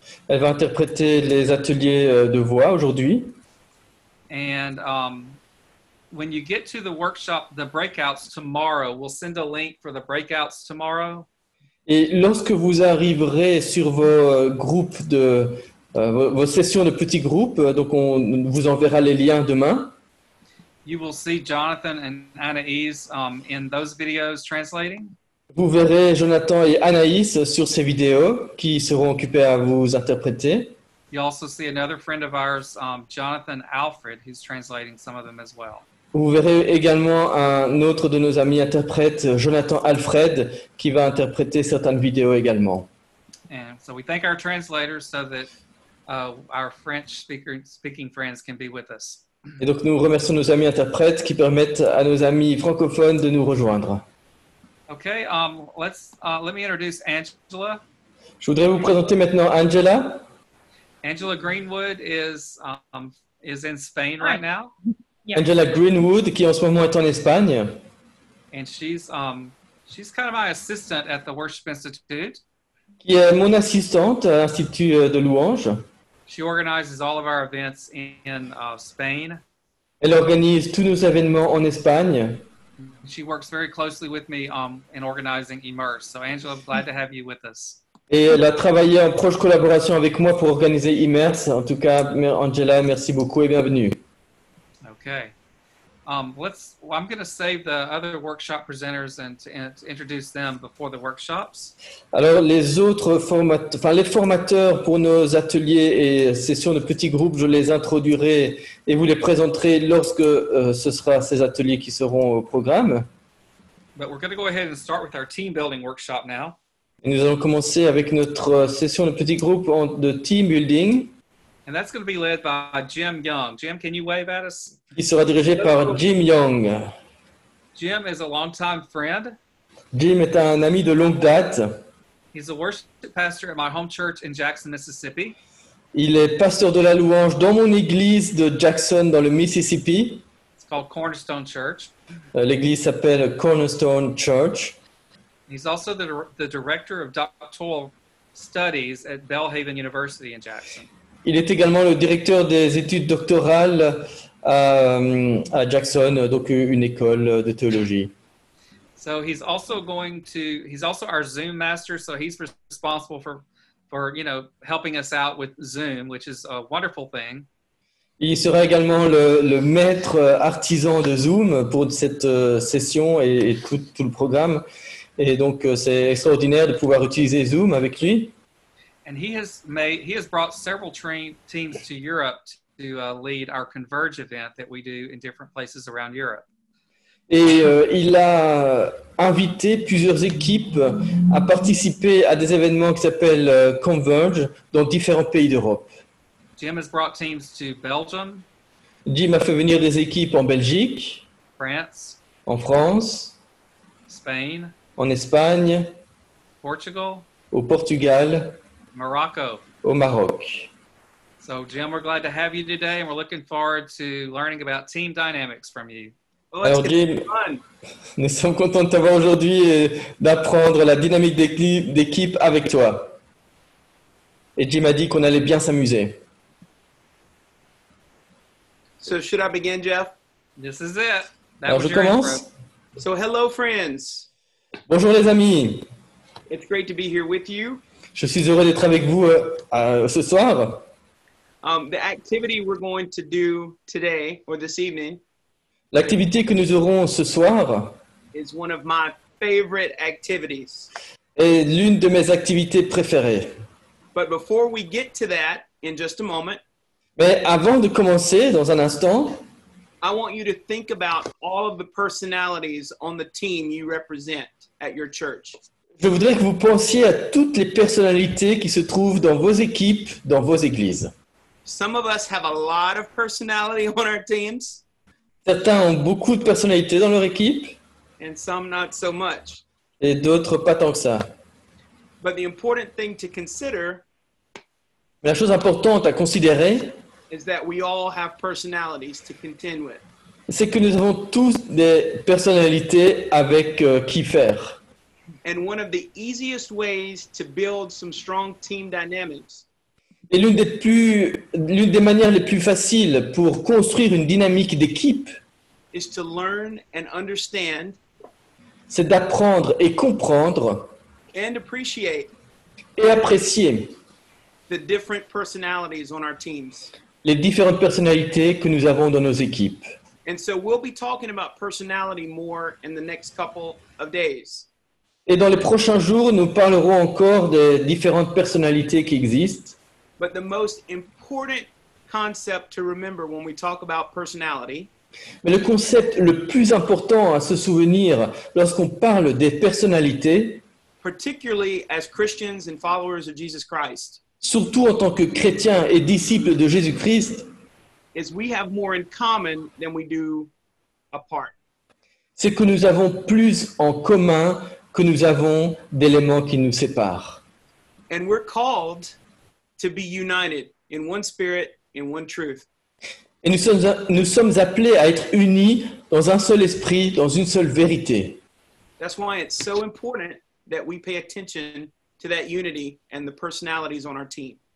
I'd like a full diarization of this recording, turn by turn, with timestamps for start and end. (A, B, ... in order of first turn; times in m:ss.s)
0:00.3-0:03.3 A
0:04.3-0:05.4 B
0:06.1-0:11.3 B
0:11.9-0:19.9 A
0:20.8-0:25.1 B
0:25.5-0:30.7 A
0:31.1-0:35.8 B
0:36.1-0:42.9 A
0:43.5-0:45.5 B
0:46.1-0:49.2 B
0:49.6-0:54.0 A
0:54.9-0:57.8 B
0:58.4-1:00.2 A
1:01.0-1:04.7 B
1:05.3-1:07.8 A
1:08.5-1:12.4 B
1:13.0-1:15.8 A
1:16.3-1:19.4 B
1:20.0-1:22.4 A
1:22.8-1:27.8 B
1:28.1-1:34.0 A
1:34.8-1:35.3 B
1:36.0-1:41.7 B
1:42.1-1:53.1 A
1:54.0-1:56.6 B
1:57.0-2:01.1 A
2:01.6-2:04.8 B
2:04.9-2:06.9 A
2:05.6-2:06.0 C
2:07.7-2:09.4 B
2:09.9-2:11.8 A
2:12.3-2:15.4 B
2:15.9-2:20.2 A
2:20.6-2:21.9 B
2:22.3-2:24.8 A
2:25.5-2:30.9 B
2:31.2-2:38.1 A
2:39.0-2:47.5 B
2:48.2-2:54.6 A
2:55.2-2:58.3 A
2:59.0-3:06.4 B
3:07.3-3:15.9 A
3:16.6-3:18.4 B
3:19.1-3:21.2 A
3:21.6-3:22.2 B
3:22.4-3:23.4 A
3:24.1-3:24.7 B
3:25.0-3:25.9 A
3:26.6-3:27.3 B
3:27.5-3:28.6 A
3:28.9-3:29.6 B
3:29.8-3:30.7 A
3:31.4-3:36.1 B
3:36.5-3:37.6 C
3:36.6-3:37.3 A
3:38.2-3:43.2 A
3:44.6-3:46.1 A
3:49.0-3:50.1 C
3:50.6-3:52.4 B
3:51.7-3:52.4 A
3:53.0-3:54.3 C
3:54.9-3:55.8 A
3:56.5-3:57.8 C
3:58.1-4:00.8 A
4:01.6-4:05.2 C
4:05.9-4:08.0 A
4:08.3-4:10.9 C
4:11.4-4:13.5 A
4:14.1-4:16.6 C
4:17.2-4:19.4 A
4:20.0-4:25.6 C
4:26.0-4:31.1 A
4:31.6-4:34.8 C
4:35.4-4:37.8 A
4:38.2-4:39.6 C
4:40.0-4:41.3 A
4:42.2-4:44.0 C
4:45.2-4:47.0 A
4:47.3-4:50.0 C
4:50.5-4:54.8 A
4:55.4-4:59.6 C
5:00.3-5:05.3 A
5:05.9-5:08.0 C
5:08.9-5:10.9 A
5:11.3-5:12.3 C
5:13.0-5:13.9 A
5:14.7-5:16.9 C
5:17.2-5:19.8 A
5:20.2-5:24.7 C
5:25.3-5:29.8 A
5:30.2-5:34.9 C
5:35.4-5:40.6 A
5:41.0-5:44.2 C
5:44.4-5:47.4 A
5:48.1-5:50.5 C
5:51.1-5:51.5 C
5:52.4-5:57.4 A
5:58.1-5:59.2 C
5:59.8-6:02.7 C
6:03.4-6:08.4 A
6:09.0-6:14.6 C